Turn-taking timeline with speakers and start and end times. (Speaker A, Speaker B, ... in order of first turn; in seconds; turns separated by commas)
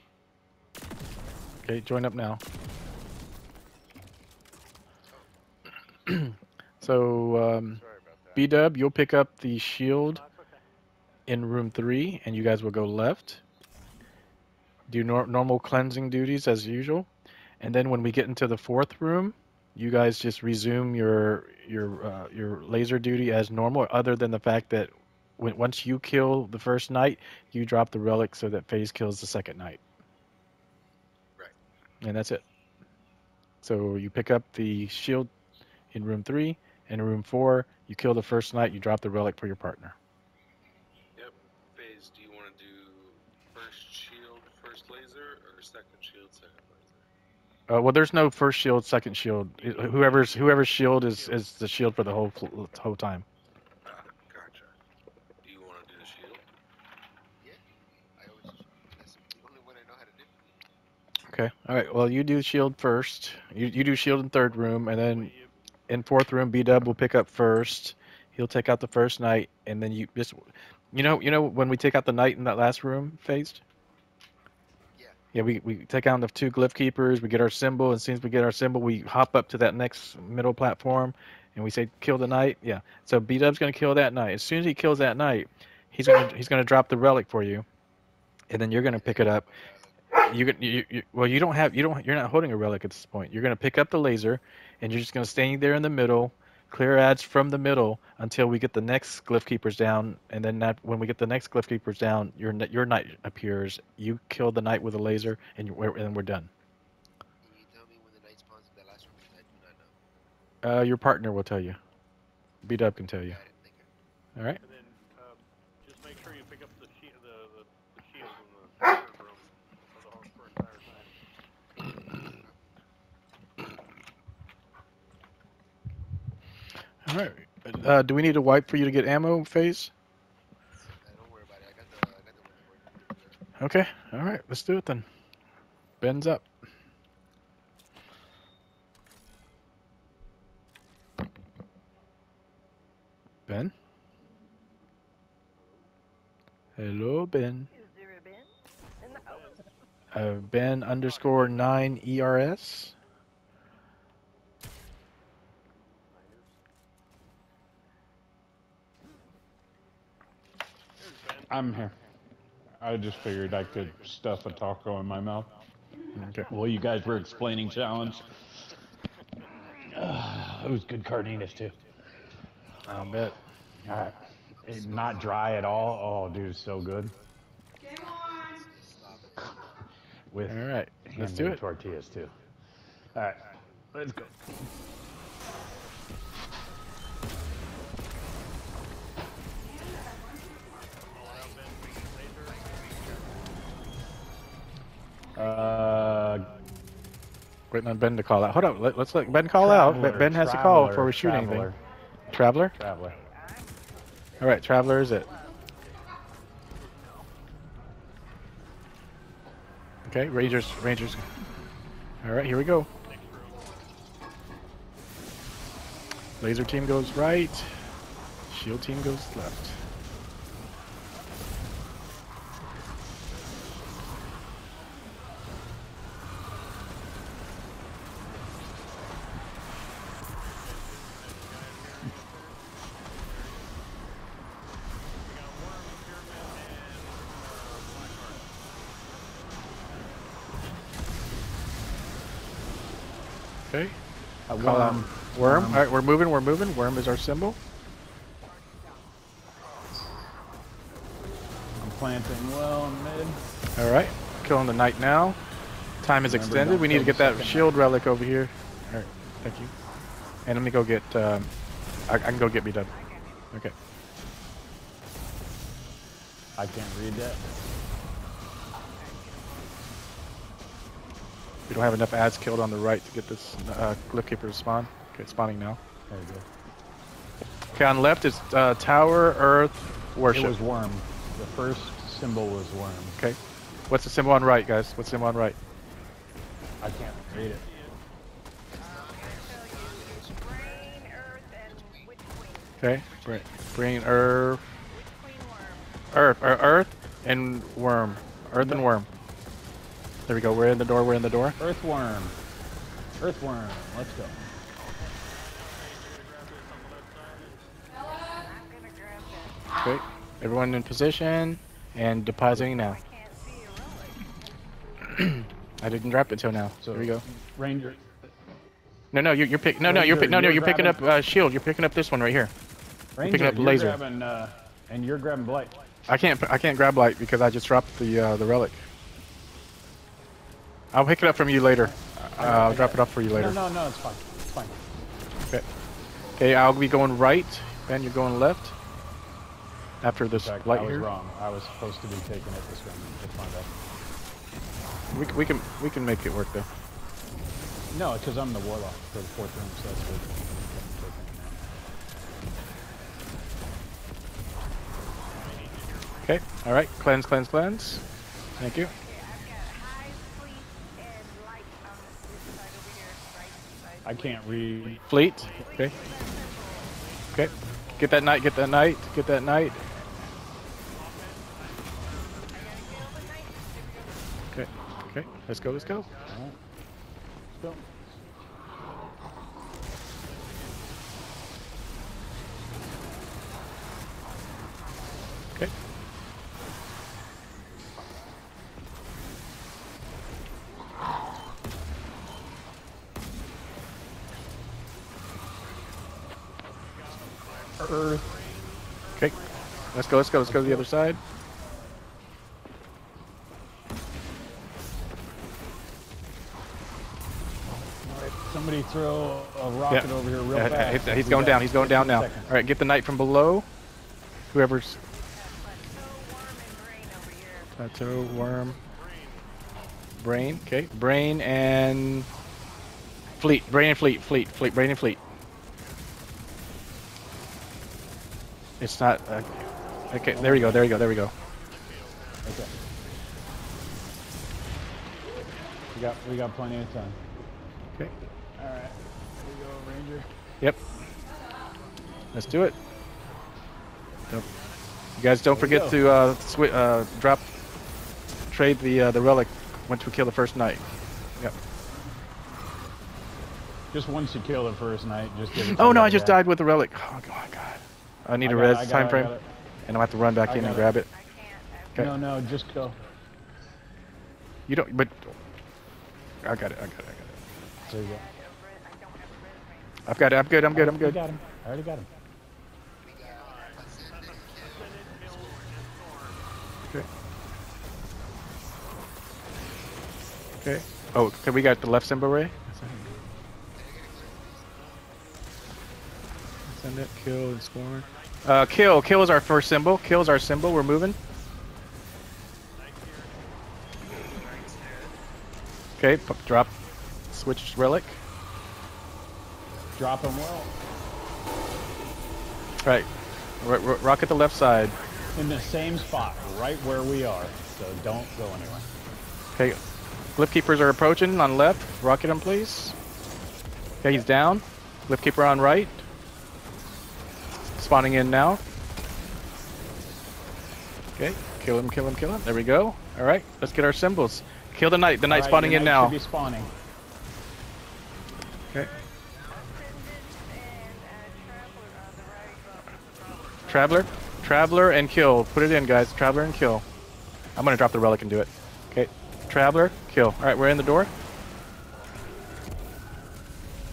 Speaker A: 1.6-2.4, Speaker A: 6.1-7.8, Speaker A: 8.3-10.2, Speaker B: 10.0-10.6, Speaker A: 11.3-13.4, Speaker A: 14.9-17.1, Speaker A: 17.6-29.8, Speaker A: 32.0-32.4, Speaker A: 33.6-35.3, Speaker A: 35.9-40.0, Speaker C: 41.2-47.0, Speaker A: 47.7-53.2, Speaker B: 49.5-51.5, Speaker C: 53.9-54.7, Speaker C: 55.4-56.4, Speaker D: 58.2-60.5, Speaker A: 61.3-65.3, Speaker B: 64.5-65.6, Speaker A: 65.9-73.6, Speaker A: 75.3-87.6, Speaker A: 88.5-89.5, Speaker D: 88.9-90.2, Speaker A: 90.1-106.5, Speaker D: 107.4-110.0, Speaker A: 110.6-111.8, Speaker A: 112.6-113.4, Speaker D: 113.2-113.9, Speaker B: 114.6-121.1, Speaker D: 122.2-122.6, Speaker A: 127.1-129.9, Speaker D: 130.9-133.4, Speaker A: 133.6-135.1, Speaker A: 136.0-136.4, Speaker A: 143.5-143.7, Speaker B: 145.6-145.9, Speaker A: 146.8-147.7, Speaker E: 147.7-149.7, Speaker B: 149.2-149.7, Speaker A: 150.1-152.9, Speaker B: 150.8-151.9, Speaker B: 156.1-156.5, Speaker B: 161.0-162.0, Speaker F: 161.5-162.0, Speaker F: 162.8-165.5, Speaker B: 163.0-164.8, Speaker A: 166.2-166.5, Speaker B: 166.3-168.2, Speaker F: 166.5-168.3, Speaker F: 169.8-171.8, Speaker A: 172.8-173.4, Speaker F: 173.8-177.1, Speaker D: 174.6-175.9, Speaker B: 176.3-177.2, Speaker D: 178.0-179.6, Speaker F: 180.3-182.3, Speaker A: 180.5-181.6, Speaker F: 183.1-184.6, Speaker B: 183.6-184.3, Speaker B: 190.6-193.8, Speaker F: 195.3-196.5, Speaker B: 195.3-196.6, Speaker A: 197.7-201.7, Speaker B: 198.5-199.6, Speaker F: 199.6-201.8, Speaker A: 202.3-202.8, Speaker F: 202.8-203.2, Speaker E: 203.2-205.6, Speaker A: 204.4-205.3, Speaker A: 210.1-211.2, Speaker A: 212.2-212.9, Speaker B: 213.0-213.7, Speaker A: 216.4-217.7, Speaker A: 218.5-219.8, Speaker B: 230.4-233.8, Speaker B: 235.2-240.2, Speaker A: 243.7-244.0, Speaker F: 244.5-245.9, Speaker A: 244.6-247.6, Speaker F: 251.8-253.4, Speaker A: 253.8-255.4, Speaker A: 256.0-259.7, Speaker F: 256.2-257.8, Speaker A: 260.5-261.5, Speaker A: 262.1-262.9, Speaker E: 262.9-263.5, Speaker F: 266.6-267.4, Speaker E: 268.9-269.7, Speaker A: 271.7-275.8, Speaker F: 276.1-276.5, Speaker A: 277.8-280.6, Speaker F: 280.2-283.2, Speaker A: 283.2-285.6, Speaker F: 286.8-287.7, Speaker B: 286.9-288.1, Speaker D: 288.8-292.1, Speaker E: 288.8-293.5, Speaker A: 292.8-294.6, Speaker E: 294.9-295.9, Speaker A: 296.1-299.1, Speaker F: 298.6-298.9, Speaker A: 300.3-301.6, Speaker F: 301.6-302.4, Speaker F: 303.2-304.4, Speaker B: 305.0-308.0, Speaker E: 308.4-309.6, Speaker A: 309.8-313.0, Speaker F: 312.5-312.8, Speaker E: 312.6-314.3, Speaker A: 315.1-317.2, Speaker F: 316.8-318.0, Speaker A: 319.1-322.5, Speaker F: 319.8-321.0, Speaker F: 323.2-325.8, Speaker A: 323.2-324.0, Speaker A: 326.1-328.9, Speaker A: 330.9-333.6, Speaker F: 331.8-334.8, Speaker A: 336.4-338.7, Speaker A: 340.0-341.1, Speaker F: 340.3-343.7, Speaker A: 345.1-346.7, Speaker F: 347.9-351.8, Speaker B: 355.2-356.5, Speaker A: 356.2-358.0, Speaker A: 358.6-358.9, Speaker E: 359.0-364.6, Speaker F: 364.1-365.0, Speaker B: 364.3-368.8, Speaker A: 365.1-365.9, Speaker E: 365.4-367.1, Speaker A: 367.3-369.9, Speaker B: 370.8-373.5, Speaker E: 372.5-374.7, Speaker A: 374.5-376.1, Speaker B: 375.2-376.5, Speaker F: 376.2-376.6, Speaker F: 377.5-378.0, Speaker B: 396.7-400.6, Speaker F: 397.8-398.3, Speaker A: 399.9-401.2, Speaker F: 400.5-400.9, Speaker F: 408.0-412.6, Speaker A: 409.9-413.7, Speaker A: 414.5-415.0, Speaker E: 415.1-417.8, Speaker A: 417.8-418.8, Speaker B: 418.7-419.6, Speaker A: 420.2-422.3, Speaker E: 423.2-424.3, Speaker A: 423.4-425.2, Speaker A: 428.8-431.3, Speaker F: 430.3-431.2, Speaker B: 430.9-432.9, Speaker F: 432.4-432.7, Speaker B: 435.3-436.9, Speaker F: 435.9-437.2, Speaker F: 438.6-440.3, Speaker A: 442.3-442.8, Speaker B: 444.2-444.9, Speaker A: 445.2-447.4, Speaker F: 445.5-446.2, Speaker A: 448.5-451.6, Speaker F: 453.9-456.4, Speaker A: 455.6-459.3, Speaker F: 458.4-459.5, Speaker A: 459.9-461.1, Speaker F: 460.4-461.0, Speaker E: 461.1-462.2, Speaker F: 462.0-463.0, Speaker A: 464.7-465.3, Speaker A: 466.4-467.4, Speaker E: 467.8-470.0, Speaker F: 467.9-468.2, Speaker A: 470.1-471.2, Speaker F: 470.7-472.1, Speaker D: 473.0-475.7, Speaker B: 473.3-476.9, Speaker A: 480.6-483.1, Speaker D: 483.7-485.2, Speaker B: 484.7-485.2, Speaker A: 486.7-491.2, Speaker B: 487.8-489.6, Speaker B: 492.7-493.8, Speaker D: 494.1-495.1, Speaker A: 496.0-496.7, Speaker B: 496.2-497.2, Speaker A: 497.3-498.2, Speaker F: 500.0-500.7, Speaker A: 502.8-505.0, Speaker B: 504.6-506.7, Speaker F: 505.3-508.9, Speaker A: 510.4-513.0, Speaker A: 514.0-516.0, Speaker A: 517.8-518.6, Speaker A: 521.2-526.2, Speaker F: 525.3-526.7, Speaker E: 528.9-534.1, Speaker B: 533.2-534.5, Speaker A: 533.7-536.8, Speaker A: 537.6-541.1